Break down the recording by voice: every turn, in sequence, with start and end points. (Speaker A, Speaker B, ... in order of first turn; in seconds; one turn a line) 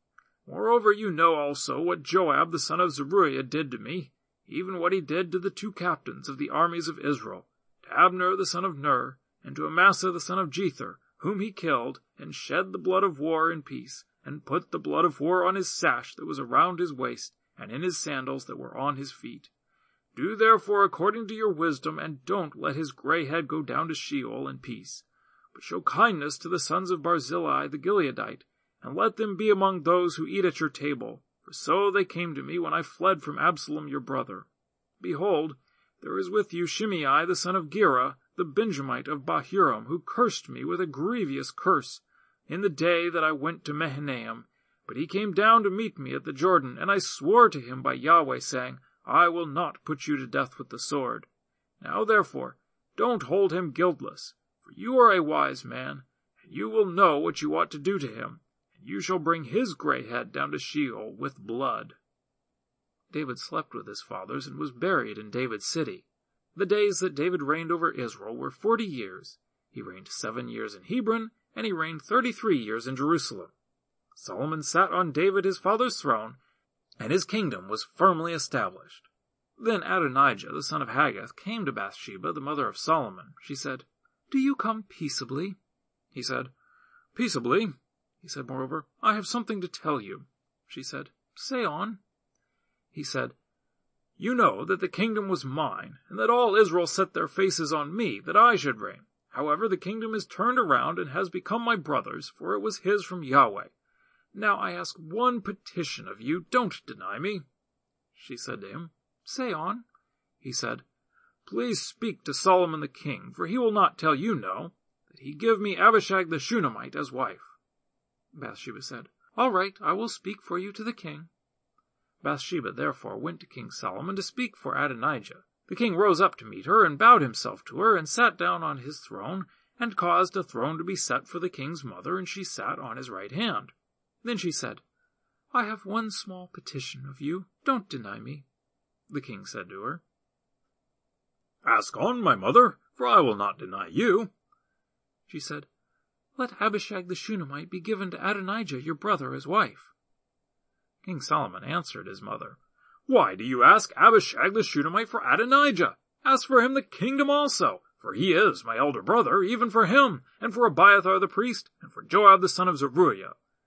Speaker A: 0.5-19.5
Speaker A: 20.1-34.5
Speaker A: 35.0-51.3
Speaker A: 51.8-62.0
Speaker A: 63.1-73.5
Speaker A: 74.1-76.4
Speaker A: 77.0-79.1
Speaker A: 79.6-85.6
Speaker A: 86.1-86.5
Speaker A: 87.1-92.0
Speaker A: 92.9-93.3
Speaker A: 94.2-103.7
Speaker A: 104.3-107.4
Speaker A: 108.1-109.8
Speaker A: 110.4-110.8
Speaker A: 111.4-117.5
Speaker A: 118.3-121.3
Speaker A: 122.2-134.8
Speaker A: 135.5-138.4
Speaker A: 139.1-140.0
Speaker A: 141.6-144.3
Speaker A: 145.3-145.7
Speaker A: 146.4-149.9
Speaker A: 151.0-163.3